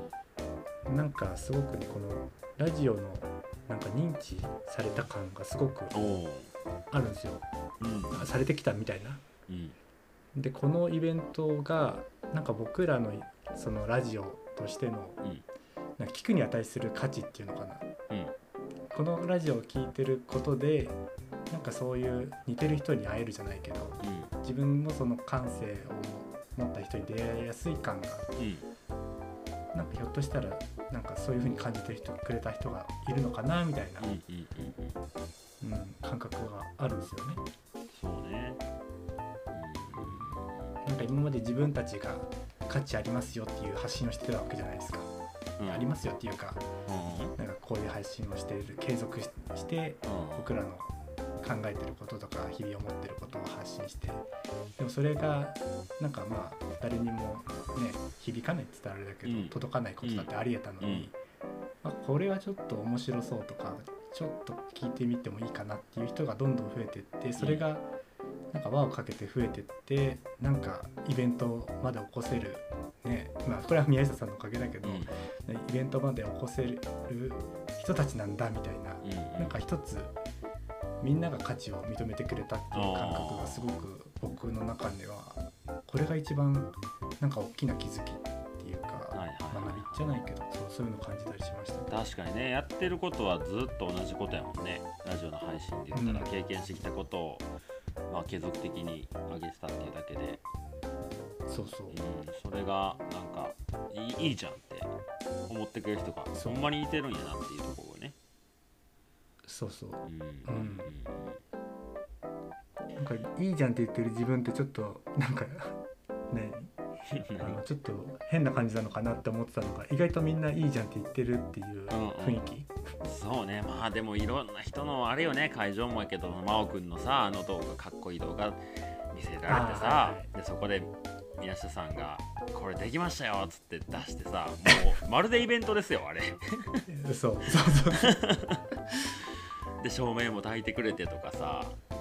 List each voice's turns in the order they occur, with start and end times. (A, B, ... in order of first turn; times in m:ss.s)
0:00.9-0:05.9 A
0:05.9-0:06.5 B
0:06.9-0:07.4 A
0:07.8-0:08.3 B
0:08.1-0:09.2 A
0:09.5-0:09.8 B
0:10.4-0:15.2 A
0:16.0-0:17.9 A
0:18.9-0:28.3 A
0:24.0-0:24.3 B
0:28.4-0:28.7 B
0:29.7-0:34.1 A
0:34.0-0:35.0 B
0:35.6-0:37.4 A
0:37.9-0:38.6 B
0:39.5-0:40.8 B
0:40.0-0:40.3 A
0:40.8-0:45.1 A
0:45.6-0:45.9 B
0:45.6-0:46.6 A
0:46.9-0:47.3 B
0:47.4-0:54.3 A
0:50.0-0:50.5 B
0:54.8-1:01.2 A
0:59.2-1:01.1 B
1:01.8-1:07.9 A
1:07.4-1:07.6 B
1:08.5-1:20.2 A
1:14.8-1:15.1 B
1:19.0-1:19.6 B
1:21.0-1:32.0 A
1:22.7-1:23.7 B
1:29.1-1:30.0 B
1:31.9-1:37.5 B
1:35.9-1:36.3 A
1:38.1-1:40.4 B
1:41.5-1:42.0 A
1:41.9-1:44.9 B
1:45.5-1:48.2 B
1:46.3-1:46.6 A
1:49.4-1:50.9 A
1:50.0-1:51.4 B
1:53.0-1:55.8 A
1:56.3-1:56.7 A
1:57.1-1:57.6 B
1:57.4-2:02.8 A
2:01.9-2:02.4 B
2:03.0-2:16.9 B
2:09.5-2:10.3 A
2:16.9-2:18.2 A
2:17.9-2:18.6 B
2:19.8-2:21.8 B